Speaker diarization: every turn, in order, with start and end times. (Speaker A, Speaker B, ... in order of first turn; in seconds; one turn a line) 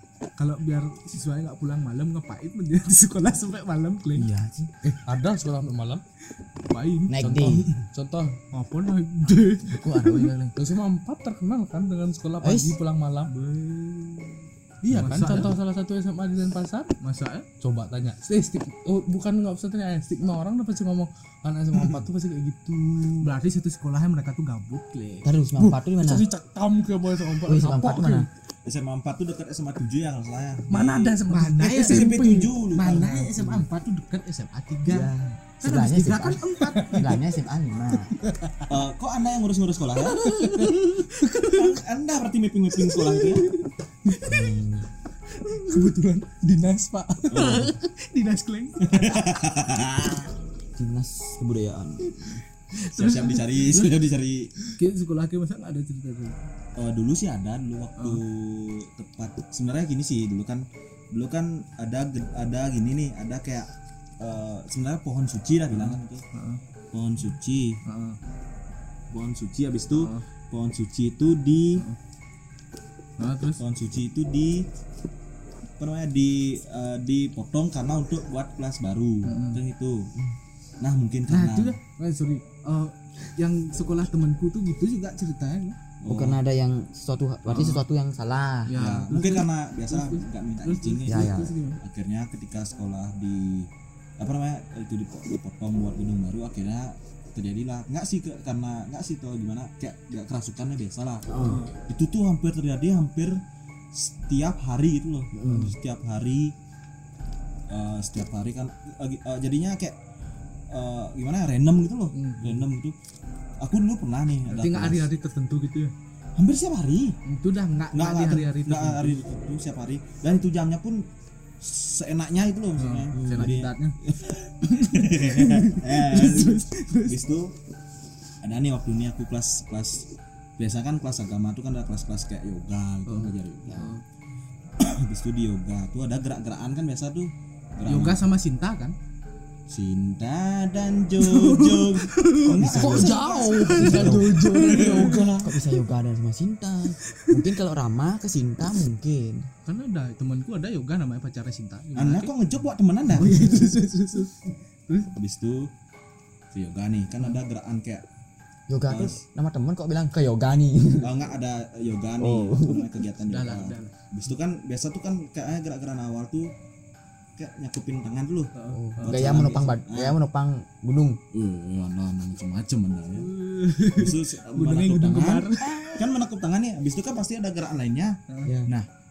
Speaker A: 0.3-4.3
Speaker B: 4.1-4.7
Speaker C: 4.8-6.0
Speaker A: 6.6-7.7
Speaker B: 7.1-7.7
Speaker C: 7.3-8.4
Speaker A: 8.5-10.3
Speaker B: 9.7-10.6
Speaker C: 10.6-13.3
Speaker B: 12.4-12.8
Speaker A: 13.3-15.6
Speaker C: 14.8-16.9
Speaker A: 17.0-17.5
Speaker C: 17.6-23.3
Speaker D: 21.7-22.0
Speaker A: 23.2-25.3
Speaker B: 25.2-26.3
Speaker C: 25.6-28.3
Speaker B: 27.4-28.3
Speaker D: 28.6-31.2
Speaker C: 30.7-32.5
Speaker A: 31.3-37.2
Speaker D: 31.8-33.6
Speaker B: 34.9-38.1
Speaker D: 36.7-37.0
Speaker D: 38.7-43.5
Speaker A: 40.1-41.6
Speaker C: 40.2-41.1
Speaker A: 43.0-44.5
Speaker B: 44.2-44.9
Speaker C: 45.4-47.5
Speaker A: 45.5-46.0
Speaker A: 47.2-49.2
Speaker D: 47.3-47.7
Speaker D: 48.8-50.3
Speaker B: 50.8-52.4
Speaker A: 52.8-53.9
Speaker D: 52.8-54.5
Speaker A: 54.7-56.4
Speaker D: 56.8-66.2
Speaker A: 65.7-66.6
Speaker D: 66.9-67.8
Speaker A: 67.8-68.2
Speaker D: 69.1-71.8
Speaker A: 69.9-70.2
Speaker A: 73.2-73.6
Speaker D: 73.6-74.7
Speaker D: 75.8-80.1
Speaker A: 79.2-79.6
Speaker D: 80.8-81.8
Speaker A: 81.3-85.8
Speaker D: 86.0-86.4
Speaker B: 86.0-88.8
Speaker A: 87.5-87.8
Speaker A: 88.7-91.8
Speaker D: 88.7-103.4
Speaker B: 91.0-91.5
Speaker B: 101.3-101.6
Speaker A: 101.3-101.7
Speaker D: 103.9-106.5
Speaker B: 105.3-105.7
Speaker D: 107.7-110.0
Speaker D: 110.7-113.0
Speaker A: 112.1-112.7
Speaker D: 113.6-115.1
Speaker A: 114.5-115.9
Speaker D: 116.3-117.2
Speaker A: 117.2-119.2
Speaker D: 117.9-121.0
Speaker D: 121.6-127.5
Speaker A: 122.8-124.0
Speaker A: 124.6-127.2
Speaker D: 128.4-133.9
Speaker A: 133.1-134.0
Speaker D: 134.8-138.2
Speaker A: 137.8-138.9
Speaker D: 139.7-145.3
Speaker A: 141.2-142.6
Speaker B: 142.4-144.4
Speaker C: 142.6-145.6
Speaker A: 143.4-145.4
Speaker B: 145.4-149.5
Speaker A: 147.1-147.4
Speaker A: 149.6-152.3
Speaker D: 151.9-153.8
Speaker A: 153.1-155.1
Speaker D: 155.1-155.7
Speaker D: 156.5-158.0
Speaker B: 158.7-161.1
Speaker D: 158.9-159.2
Speaker D: 161.0-166.5
Speaker B: 162.2-162.9
Speaker A: 163.2-163.9
Speaker D: 167.4-170.2
Speaker A: 168.5-169.3
Speaker B: 168.7-171.2
Speaker D: 171.3-173.3
Speaker A: 173.2-176.0
Speaker D: 173.9-178.9
Speaker B: 178.4-178.7